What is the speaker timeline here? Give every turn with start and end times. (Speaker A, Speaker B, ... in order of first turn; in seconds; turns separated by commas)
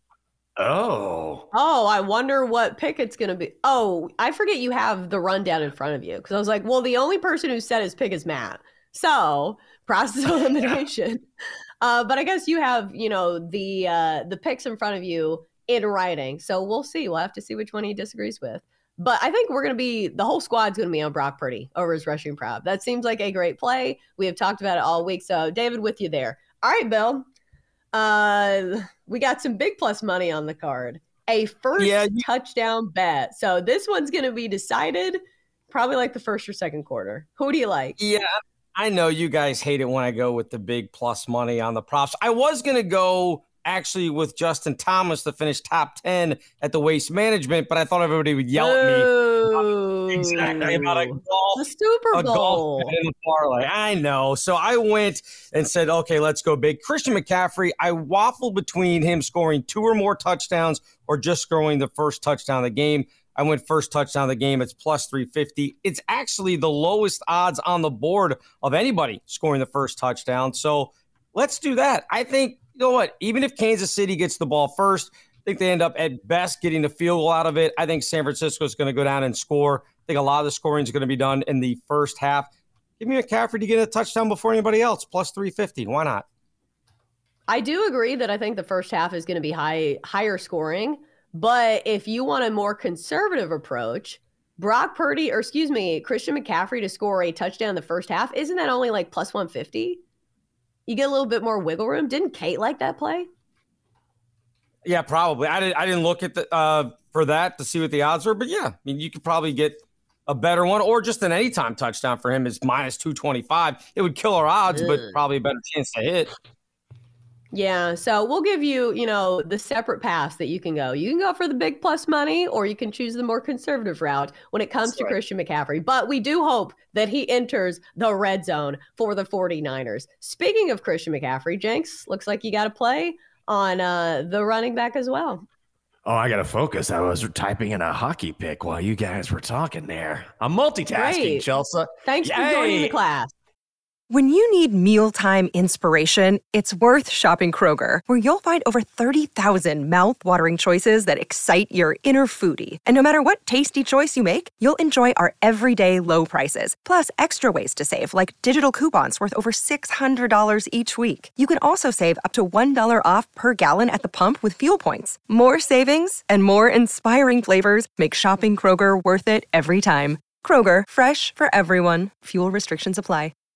Speaker A: 0.6-1.5, Speaker B: 1.5-11.2, Speaker B: 11.8-27.3, Speaker B: 27.9-35.2, Speaker C: 31.8-32.2, Speaker B: 35.7-38.0, Speaker C: 38.0-86.2, Speaker B: 48.6-52.9, Speaker B: 87.5-100.0, Speaker B: 100.9-103.3, Speaker C: 104.8-116.3, Speaker B: 117.5-135.4, Speaker A: 136.1-142.9, Speaker B: 140.9-141.5, Speaker B: 142.0-143.3, Speaker D: 144.1-173.3